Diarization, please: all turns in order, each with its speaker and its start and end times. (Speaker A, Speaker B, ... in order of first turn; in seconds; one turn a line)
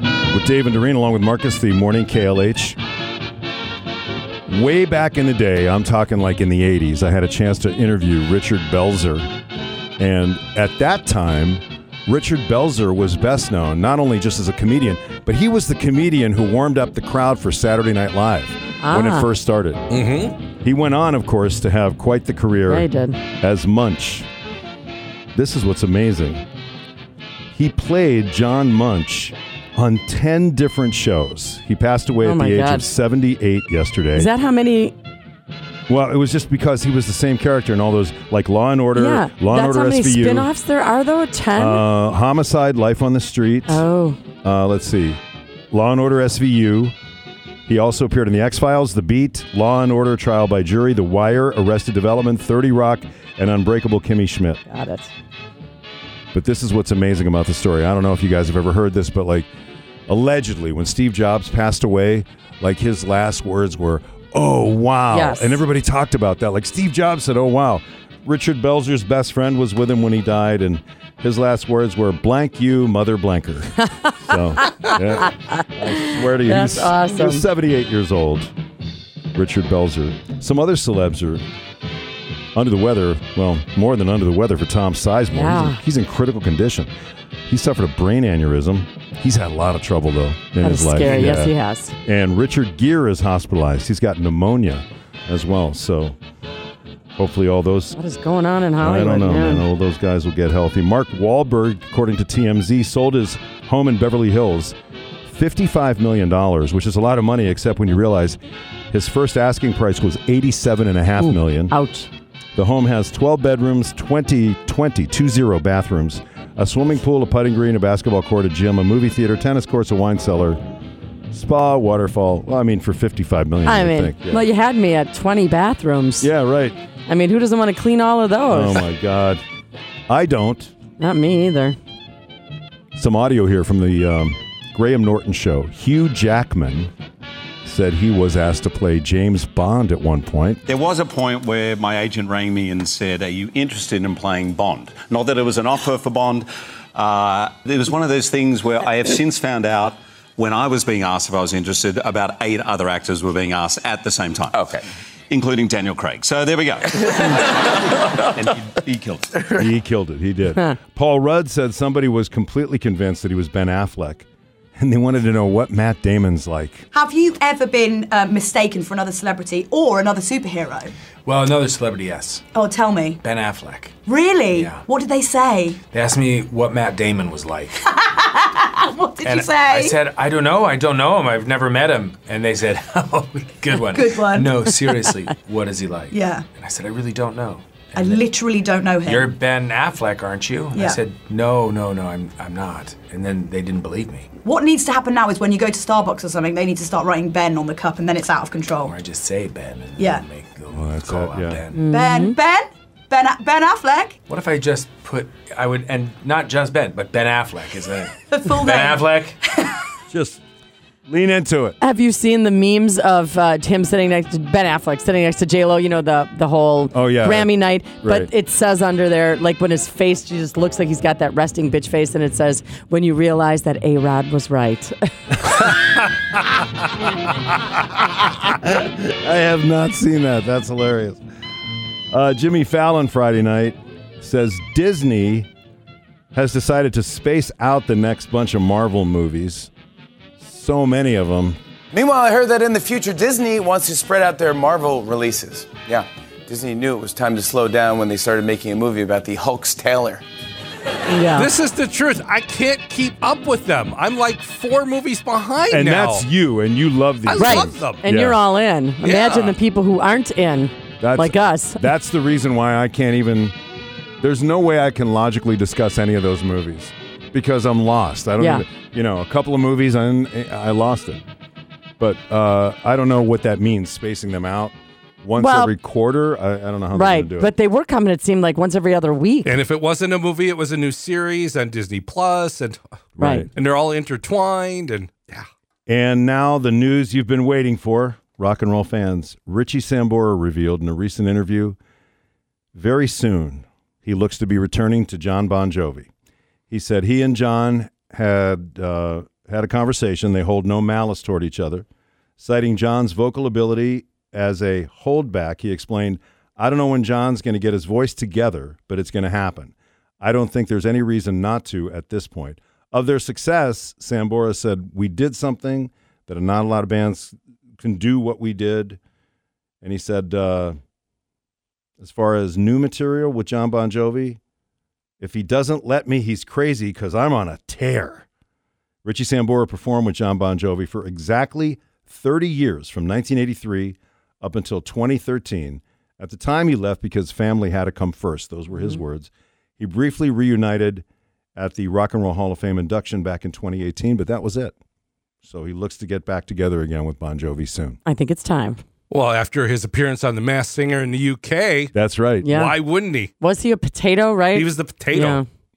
Speaker A: 0.3-2.8
Speaker A: 4.5-9.2
Speaker A: 10.0-19.8
Speaker B: 18.8-19.3
Speaker C: 19.9-20.3
Speaker A: 20.6-24.3
Speaker B: 22.7-23.2
Speaker A: 25.3-26.4
Speaker A: 27.5-34.3
Speaker B: 32.2-32.9
Speaker B: 34.1-34.9
Speaker A: 35.9-40.5
Speaker B: 38.9-41.9
Speaker A: 41.5-43.8
Speaker B: 43.7-44.2
Speaker A: 44.4-45.2
Speaker A: 45.7-46.9
Speaker A: 47.6-54.6
Speaker B: 54.7-55.1
Speaker A: 56.3-59.5
Speaker A: 60.1-78.5
Speaker B: 65.1-65.6
Speaker B: 76.3-77.5
Speaker A: 79.3-81.4
Speaker A: 82.5-86.9
Speaker B: 85.3-85.8
Speaker A: 87.5-96.2
Speaker B: 90.6-91.9
Speaker A: 97.2-98.0
Speaker B: 97.9-99.7
Speaker A: 98.8-108.4
Speaker A: 108.9-111.8
Speaker B: 111.2-112.1
Speaker A: 112.5-120.6
Speaker A: 121.3-124.5
Speaker B: 123.6-126.3
Speaker A: 126.2-126.8
Speaker B: 127.1-128.9
Speaker A: 128.5-129.4
Speaker A: 130.1-130.7
Speaker B: 131.0-131.8
Speaker A: 132.9-136.9
Speaker A: 137.6-140.6
Speaker D: 140.7-159.5
Speaker A: 159.5-166.9
Speaker E: 166.9-170.9
Speaker F: 171.2-172.4
Speaker E: 172.5-173.2
Speaker F: 173.2-174.0
Speaker E: 174.1-175.8
Speaker F: 174.5-174.8
Speaker F: 175.9-177.9
Speaker E: 177.8-179.9
Speaker F: 179.2-188.3
Speaker E: 183.8-184.7
Speaker E: 186.1-186.4
Speaker E: 187.9-189.3
Speaker F: 189.0-194.3
Speaker E: 194.4-198.9
Speaker F: 198.8-201.8
Speaker E: 200.0-200.2
Speaker A: 200.7-201.6
Speaker B: 201.7-202.4
Speaker E: 201.8-204.2
Speaker F: 204.3-209.4
Speaker E: 208.3-209.8
Speaker A: 210.1-210.4
Speaker A: 211.1-211.8
Speaker B: 211.8-225.8
Speaker A: 216.9-218.3
Speaker A: 228.4-231.2
Speaker A: 232.1-235.5
Speaker A: 236.3-239.7
Speaker A: 240.4-241.6
Speaker G: 241.9-250.2
Speaker B: 251.1-251.5
Speaker C: 251.3-256.2
Speaker A: 255.7-258.4
Speaker C: 257.2-258.0
Speaker B: 257.4-261.8
Speaker C: 259.0-259.6
Speaker A: 261.0-263.6
Speaker A: 264.2-271.2
Speaker B: 268.4-268.6
Speaker A: 272.0-277.5
Speaker B: 275.4-275.7
Speaker B: 276.9-279.5
Speaker C: 279.4-282.8
Speaker A: 283.2-283.5
Speaker B: 283.2-283.5
Speaker C: 283.5-285.4
Speaker A: 285.9-291.8
Speaker A: 292.7-296.1
Speaker A: 296.7-301.9
Speaker A: 302.4-319.0
Speaker A: 319.8-320.8
Speaker A: 322.0-324.4
Speaker A: 325.2-328.3
Speaker A: 329.0-341.0
Speaker A: 341.6-344.7
Speaker A: 345.4-348.0
Speaker B: 348.1-348.8
Speaker C: 349.1-351.9
Speaker A: 351.9-352.5
Speaker B: 352.4-352.8
Speaker C: 352.5-353.3
Speaker B: 353.4-355.4
Speaker C: 354.5-355.4